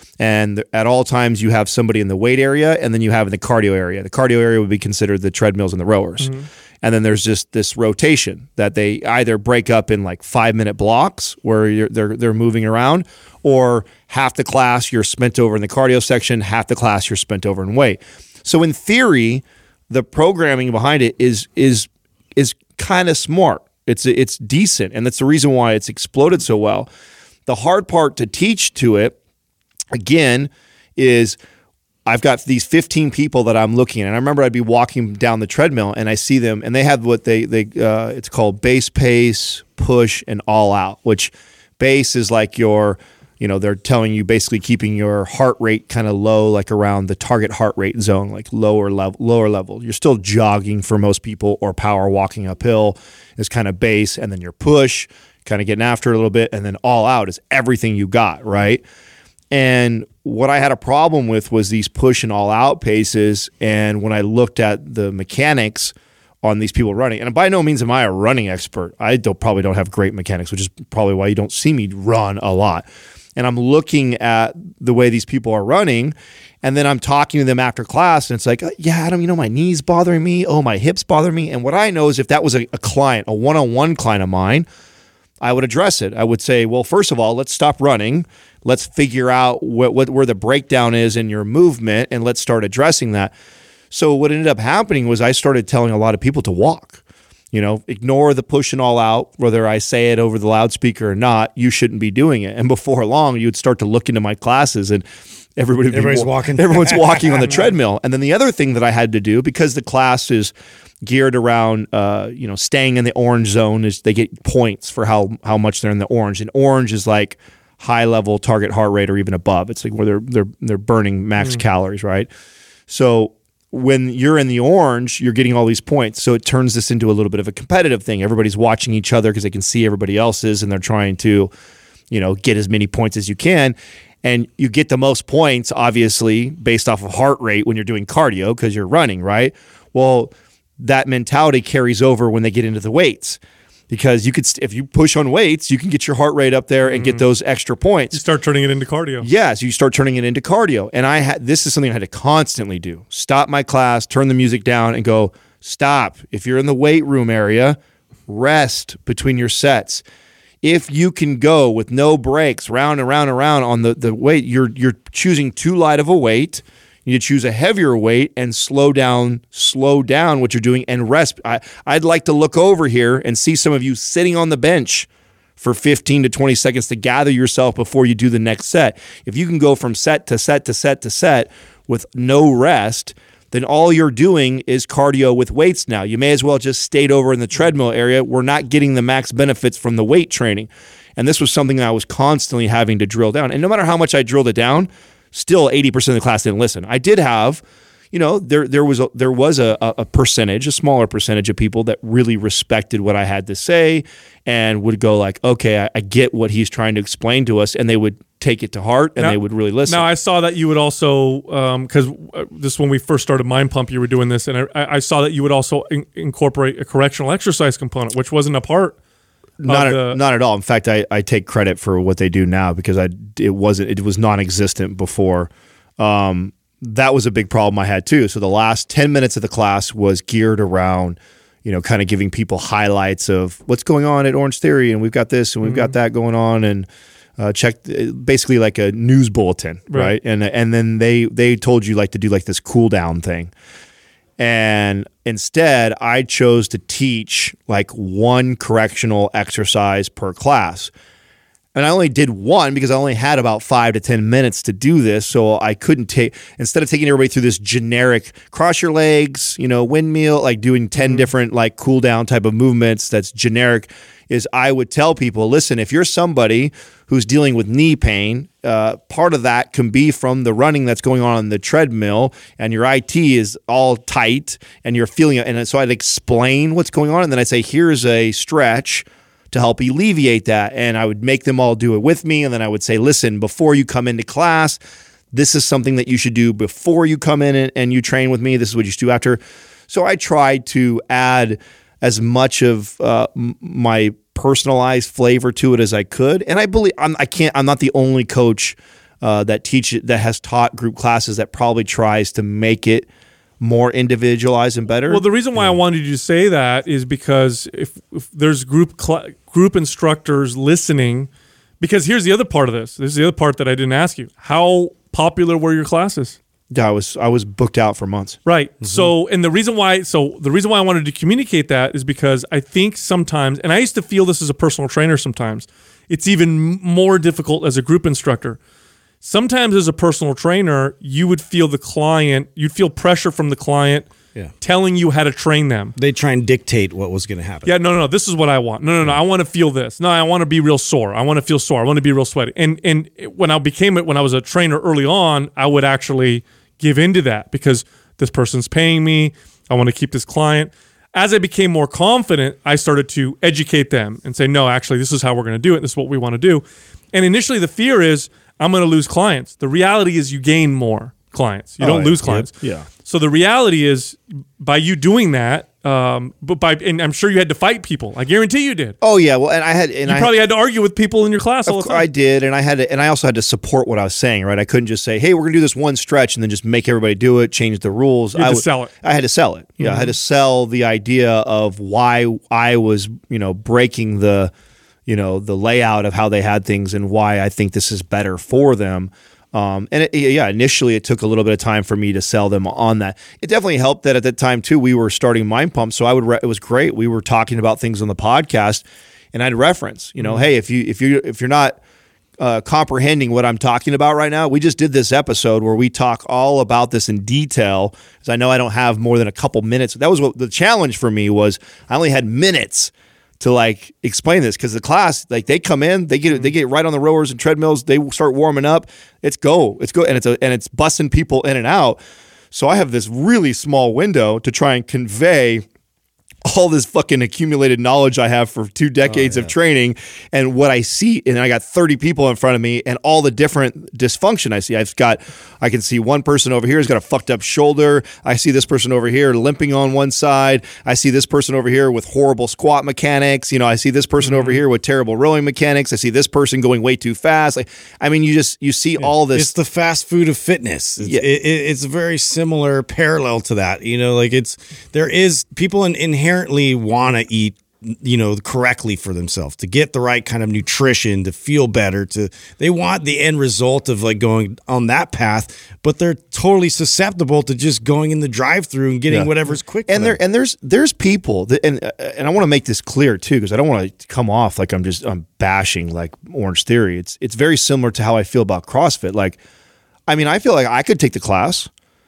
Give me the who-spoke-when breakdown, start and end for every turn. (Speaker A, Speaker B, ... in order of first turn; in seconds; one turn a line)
Speaker A: 0.2-26.9
Speaker B: 6.2-6.5
Speaker A: 27.5-29.2
Speaker A: 29.9-31.4
Speaker A: 32.1-58.8
Speaker A: 59.5-84.7
Speaker A: 85.4-93.3
Speaker A: 93.9-97.0
Speaker A: 97.5-105.0
Speaker A: 105.6-122.3
Speaker C: 105.9-107.7
Speaker A: 122.9-131.5
Speaker A: 132.1-143.4
Speaker A: 143.9-148.2
Speaker B: 146.9-147.2
Speaker B: 148.1-149.3
Speaker A: 149.2-160.0
Speaker A: 160.6-210.1
Speaker B: 209.2-219.0
Speaker A: 219.6-236.9
Speaker B: 219.7-220.2
Speaker B: 235.6-235.9
Speaker A: 237.4-243.5
Speaker A: 244.4-250.9
Speaker A: 251.8-284.8
Speaker B: 261.0-261.2
Speaker A: 285.3-303.1
Speaker A: 303.6-305.2
Speaker B: 305.1-311.3
Speaker B: 311.8-316.4
Speaker A: 316.7-318.4
Speaker B: 318.5-328.6
Speaker C: 318.8-319.1
Speaker B: 329.2-334.1
Speaker B: 334.6-335.9
Speaker C: 336.0-337.7
Speaker B: 337.7-369.0
Speaker A: 361.8-362.9
Speaker A: 369.0-370.3
Speaker B: 370.1-372.1
Speaker A: 371.7-384.5
Speaker B: 378.4-378.9
Speaker B: 379.8-380.1
Speaker A: 385.1-401.8
Speaker A: 402.4-422.0
Speaker A: 422.5-425.6
Speaker A: 426.5-449.5
Speaker C: 429.2-429.4
Speaker C: 449.1-470.2
Speaker A: 469.9-479.4
Speaker A: 480.1-481.7